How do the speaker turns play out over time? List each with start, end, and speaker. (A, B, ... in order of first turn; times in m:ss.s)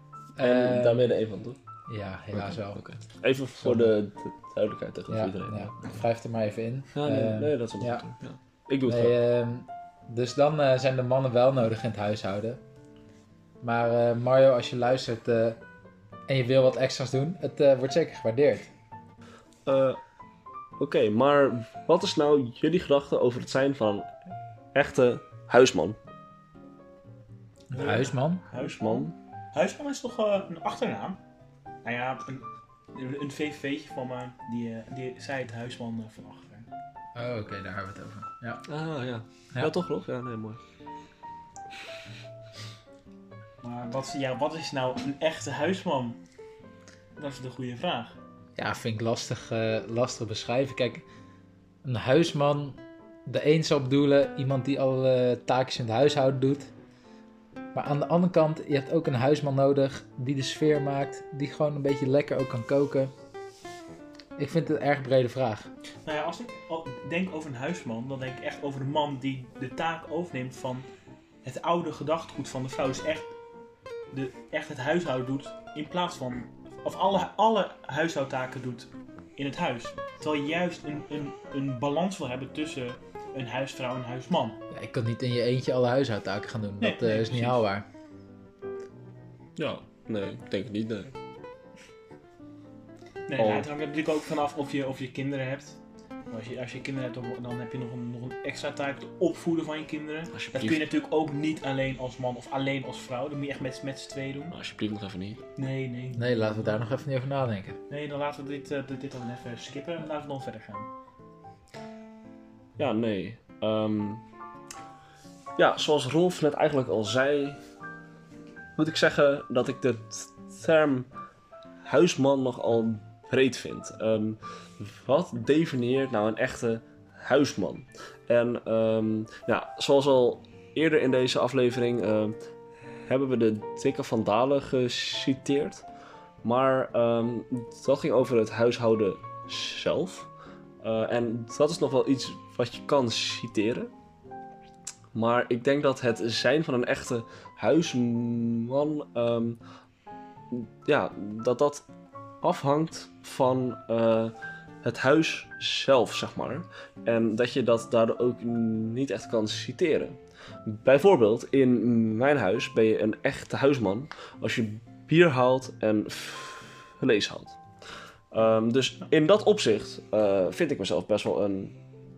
0:00.4-0:01.1 A
0:00.4-0:01.6 B
0:01.9-0:02.8 A
0:02.3-0:06.0 B
0:03.6-0:03.9 A
0:05.1-0:08.0 A
0:06.9-0:09.2 B
0:08.8-0:12.6 A
0:13.6-0:15.6 A
0:16.3-0:18.7 A
0:19.6-0:20.0 B
0:20.8-0:24.1 B
0:24.8-0:26.0 B
0:27.7-0:28.4 A
0:27.7-0:31.2 C
0:28.6-0:29.1 B
0:31.8-0:36.7 C
0:37.1-0:38.6 A
0:38.7-0:40.6 B
0:43.6-0:46.2 C
0:47.2-0:48.2 C
0:48.6-0:51.1 A
0:51.8-0:56.7 A
0:57.7-1:03.1 A
1:04.4-1:05.7 A
1:06.0-1:10.9 C
1:11.4-1:13.3 C
1:14.1-1:24.6 C
1:24.7-1:27.8 A
1:26.8-1:27.6 C
1:29.6-1:31.1 B
1:33.3-1:35.8 C
1:33.4-1:33.7 B
1:36.3-1:44.6 C
1:40.3-1:40.9 B
1:44.5-1:45.4 B
1:45.6-1:46.8 C
1:46.2-1:47.8 A
1:47.9-1:50.9 C
1:52.8-1:54.2 B
1:55.6-1:57.6 B
1:58.8-2:01.1 B
2:01.8-2:12.3 B
2:13.0-2:15.8 B
2:16.4-2:20.3 B
2:20.8-2:23.9 B
2:25.1-2:29.6 B
2:30.5-2:31.8 B
2:32.4-2:47.6 B
2:48.3-2:51.8 B